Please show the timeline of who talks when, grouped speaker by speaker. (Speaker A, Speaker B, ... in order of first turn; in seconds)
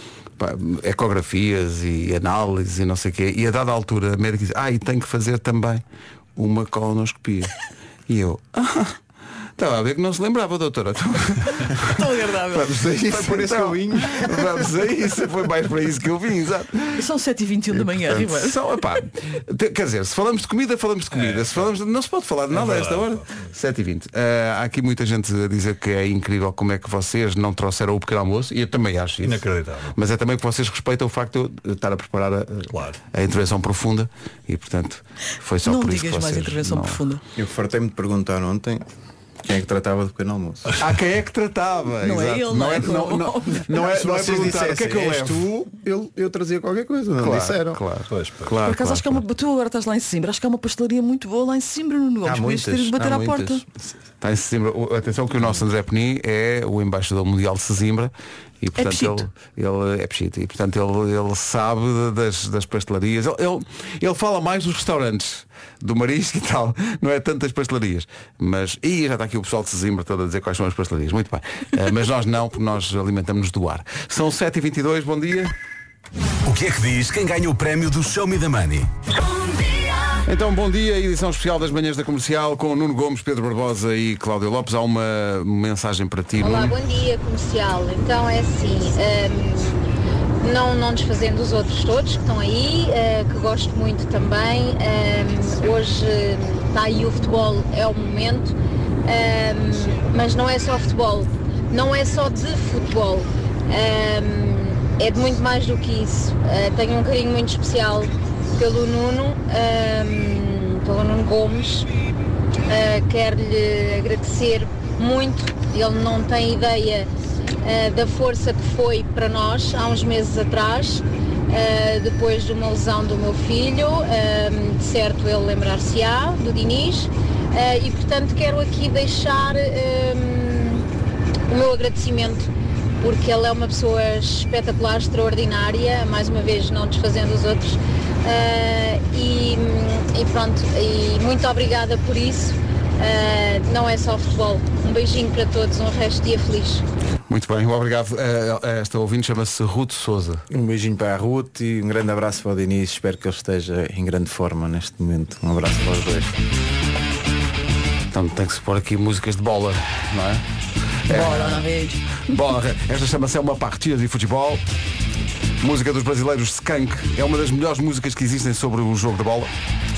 Speaker A: 0.4-5.8, 6.3-7.5, 8.1-9.0, 9.6-17.0, 17.7-29.4, 29.9-37.0, 40.8-45.4, 47.2-49.2, 54.2-75.5, 80.2-86.8, 147.3-150.4, 158.1-160.4, 161.1-161.7, 162.3-164.6, 165.6-169.5
Speaker B: 11.9-12.8, 17.0-18.8, 35.6-37.2, 42.0-43.8, 48.6-53.6, 58.8-59.2, 161.1-162.0
Speaker C: 13.1-14.8, 37.4-38.9, 39.4-40.7, 43.7-47.8, 52.2-53.6, 150.5-156.4
Speaker D: 21.1-21.7, 22.5-23.5, 29.2-29.9, 32.7-33.0, 48.1-48.5
Speaker E: 76.4-78.9
Speaker F: 86.4-111.9, 112.7-117.1, 117.6-130.8, 131.5-146.8